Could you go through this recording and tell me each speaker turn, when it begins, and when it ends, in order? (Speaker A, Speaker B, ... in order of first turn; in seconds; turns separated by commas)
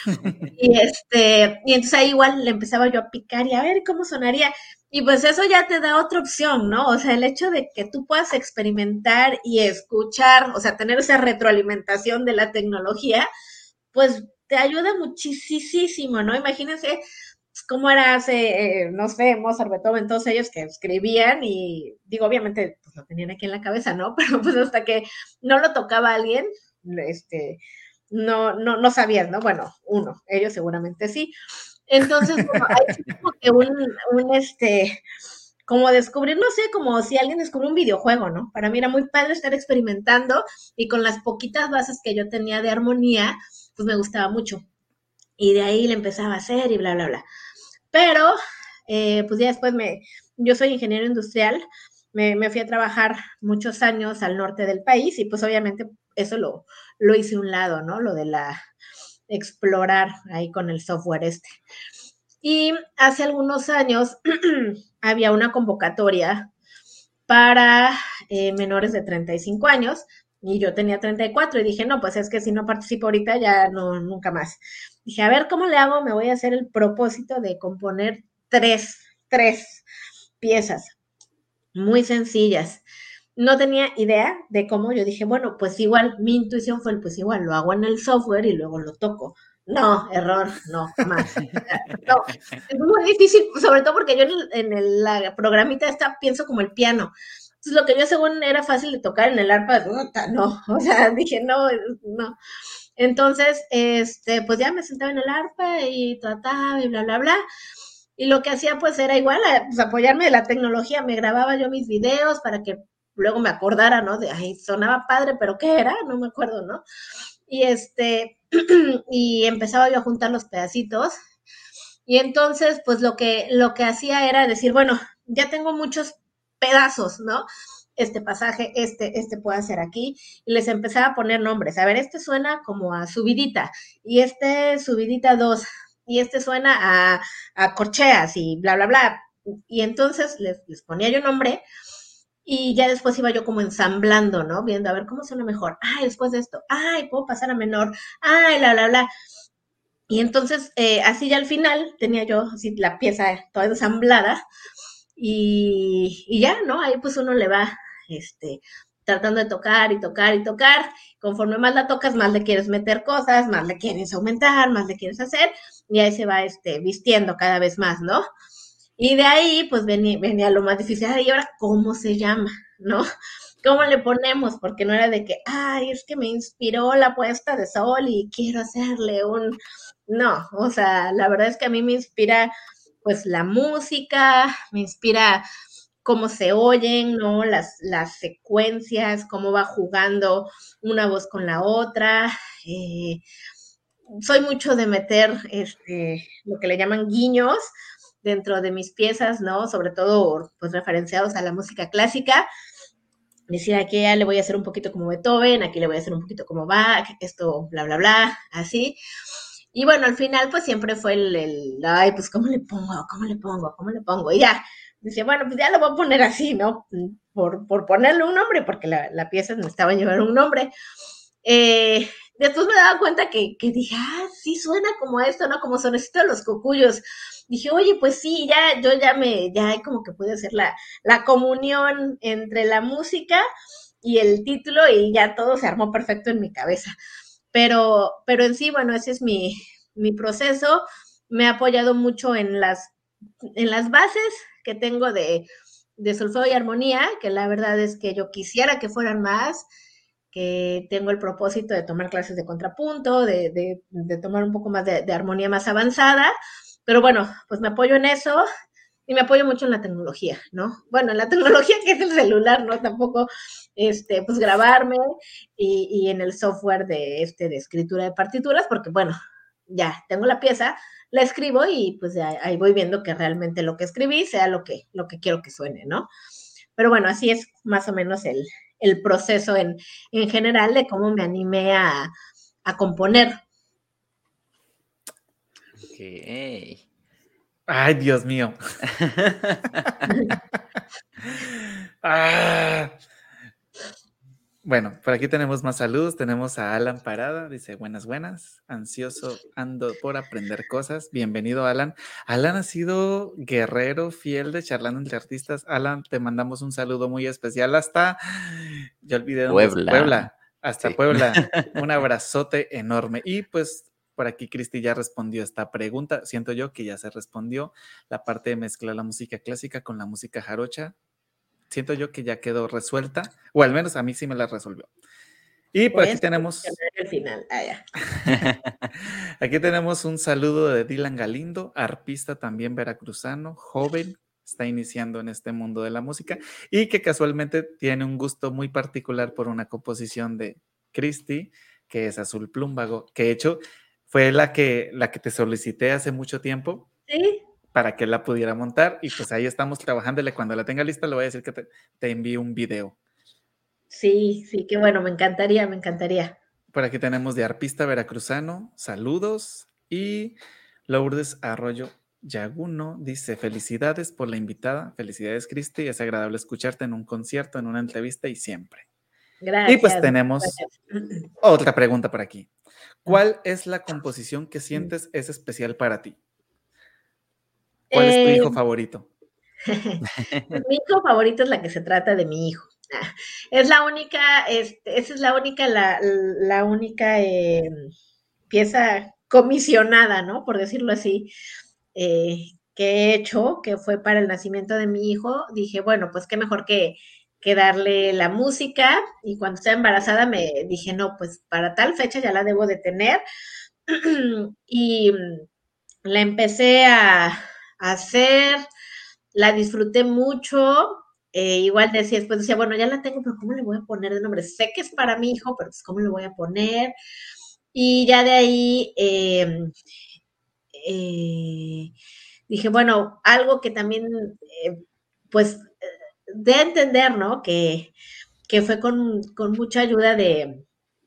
Speaker A: 0.1-0.5, Speaker B: 0.6-13.3, Speaker B: 13.9-17.0, Speaker B: 17.5-27.6, Speaker B: 28.1-31.3, Speaker B: 31.9-35.0, Speaker B: 35.7-44.6, Speaker B: 45.4-47.2, Speaker B: 47.9-48.4, Speaker B: 48.9-58.6, Speaker B: 59.3-61.5, Speaker B: 62.4-66.5, Speaker B: 67.3-79.8, Speaker B: 80.4-80.9, Speaker B: 81.7-82.8, Speaker B: 83.4-102.4, Speaker B: 103.0-107.4, Speaker B: 108.2-116.8, Speaker B: 117.5-121.2, Speaker B: 122.1-127.4, Speaker B: 128.0-141.6, Speaker B: 142.4-149.1, Speaker B: 150.1-154.4, Speaker B: 155.2-168.2, Speaker B: 169.0-173.1, Speaker B: 173.6-179.6, Speaker B: 180.1-182.5, Speaker B: 183.0-185.4, Speaker B: 186.0-193.2, Speaker B: 194.2-197.7, Speaker B: 198.2-202.4, Speaker B: 203.5-209.0, Speaker B: 209.7-220.7, Speaker B: 221.4-233.4, Speaker B: 234.0-236.9, Speaker B: 237.5-242.9, Speaker B: 243.6-245.5, Speaker B: 246.0-249.7, Speaker B: 250.3-256.3, Speaker B: 256.9-258.4, Speaker B: 259.1-265.0, Speaker B: 265.6-269.2, Speaker B: 269.7-276.1, Speaker B: 276.8-282.1, Speaker B: 282.6-283.4, Speaker C: 285.9-286.8, Speaker A: 287.7-288.6, Speaker C: 288.9-290.1, Speaker B: 290.1-290.4, Speaker A: 291.2-292.9, Speaker A: 294.6-320.9, Speaker C: 309.5-310.3, Speaker C: 310.8-311.7, Speaker A: 321.7-324.9, Speaker A: 325.7-326.7, Speaker B: 325.9-327.8, Speaker C: 328.2-328.7, Speaker A: 328.3-343.6, Speaker A: 344.1-346.9, Speaker B: 347.1-347.4, Speaker A: 347.7-352.9, Speaker B: 353.9-356.4, Speaker A: 356.7-360.4, Speaker A: 360.9-368.9, Speaker B: 369.4-371.3, Speaker A: 369.6-370.6, Speaker A: 371.4-372.5, Speaker A: 373.0-376.2, Speaker B: 377.9-378.6, Speaker A: 377.9-379.1, Speaker B: 379.7-387.9, Speaker C: 380.2-380.5, Speaker B: 388.5-391.3, Speaker B: 391.9-403.2, Speaker B: 403.9-405.4, Speaker B: 406.0-408.6, Speaker B: 409.3-416.9, Speaker B: 417.7-419.7, Speaker B: 420.7-421.9, Speaker B: 422.5-424.8, Speaker B: 425.3-425.7, Speaker B: 426.3-427.9, Speaker B: 428.5-430.6